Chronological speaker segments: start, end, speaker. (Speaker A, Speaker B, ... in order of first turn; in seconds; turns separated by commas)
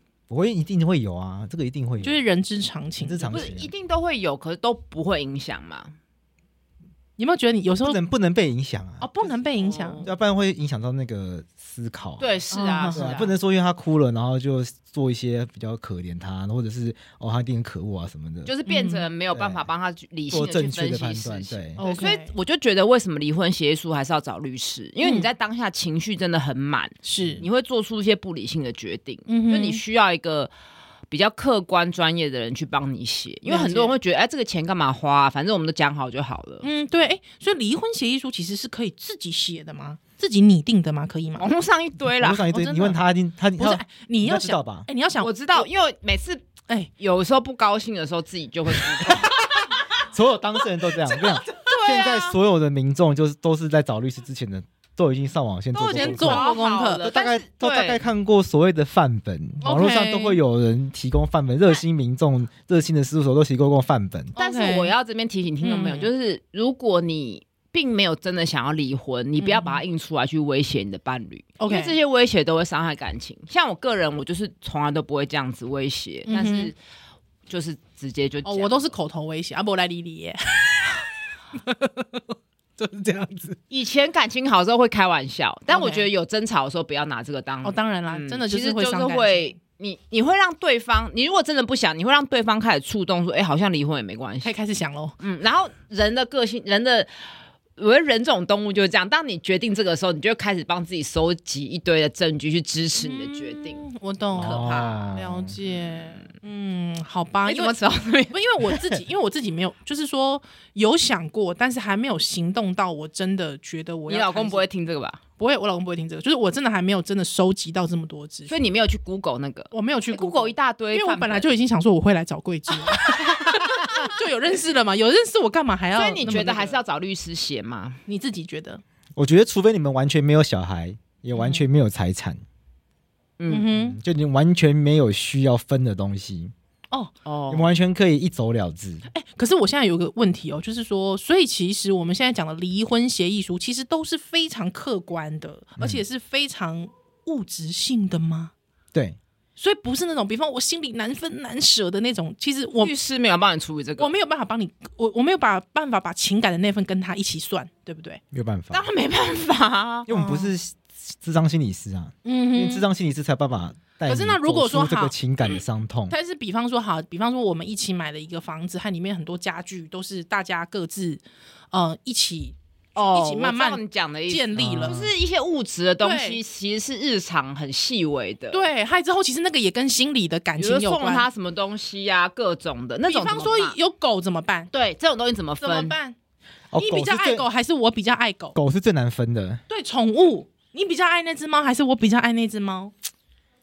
Speaker A: 0.3-2.2, Speaker B: 2.0-3.4, Speaker A: 3.0-3.7, Speaker C: 3.3-5.9, Speaker B: 7.2-8.0, Speaker A: 7.8-9.3, Speaker B: 9.0-10.1, Speaker C: 9.5-10.1, Speaker A: 10.0-12.2, Speaker C: 12.2-13.3, Speaker B: 12.5-13.1, Speaker A: 12.9-18.5, Speaker C: 18.4-30.5, Speaker B: 18.6-19.1, Speaker A: 19.3-19.6, Speaker A: 20.3-21.8, Speaker B: 21.8-22.3, Speaker B: 25.0-25.3, Speaker B: 27.0-27.4, Speaker A: 27.2-27.5, Speaker B: 29.3-29.8, Speaker C: 31.1-36.7, Speaker B: 33.5-33.9, Speaker B: 36.6-41.5, Speaker C: 41.4-42.4, Speaker A: 42.2-44.9, Speaker B: 42.5-43.0, Speaker B: 43.6-45.7, Speaker C: 45.2-46.4, Speaker C: 47.0-49.6, Speaker B: 49.1-49.6, Speaker A: 50.0-56.5, Speaker C: 51.6-52.4, Speaker C: 55.7-58.0, Speaker B: 55.8-57.1, Speaker A: 57.1-64.3, Speaker B: 59.6-60.4, Speaker B: 64.3-64.9, Speaker C: 64.4-76.8, Speaker B: 65.6-66.1, Speaker B: 69.4-69.8, Speaker B: 71.6-72.0, Speaker B: 76.3-76.7, Speaker C: 77.5-78.9, Speaker B: 78.4-81.0, Speaker B: 81.5-82.2, Speaker B: 82.8-83.5, Speaker C: 83.7-94.5, Speaker B: 85.7-86.1, Speaker B: 87.6-89.5, Speaker B: 94.4-95.2, Speaker C: 95.2-97.1, Speaker C: 97.8-106.2, Speaker B: 103.0-107.7, Speaker A: 104.3-105.5, Speaker C: 107.5-108.8, Speaker B: 108.3-114.7, Speaker C: 114.1-115.2, Speaker B: 115.4-118.6, Speaker C: 118.5-121.5, Speaker B: 119.7-126.8, Speaker C: 122.9-123.3, Speaker C: 125.9-128.0, Speaker A: 126.2-126.6, Speaker B: 128.1-128.8, Speaker A: 129.2-132.4, Speaker B: 131.3-131.6, Speaker C: 133.4-133.7, Speaker B: 133.5-134.0, Speaker A: 133.7-136.5, Speaker C: 137.2-137.7, Speaker A: 137.5-139.1, Speaker B: 139.1-148.5, Speaker B: 149.6-152.9, Speaker C: 152.8-154.1, Speaker B: 154.0-158.2, Speaker A: 158.3-158.9, Speaker C: 158.7-160.1, Speaker A: 160.1-166.1, Speaker B: 160.1-160.5, Speaker B: 162.2-162.9, Speaker B: 164.1-165.1, Speaker B: 166.1-175.0, Speaker C: 172.9-178.6, Speaker A: 174.6-175.1, Speaker B: 176.0-176.4, Speaker B: 178.5-181.3, Speaker C: 180.6-183.8, Speaker B: 183.1-184.7, Speaker C: 184.7-185.9, Speaker B: 185.6-186.1, Speaker A: 186.7-187.4, Speaker B: 186.8-188.6, Speaker A: 188.5-189.6, Speaker B: 189.7-192.9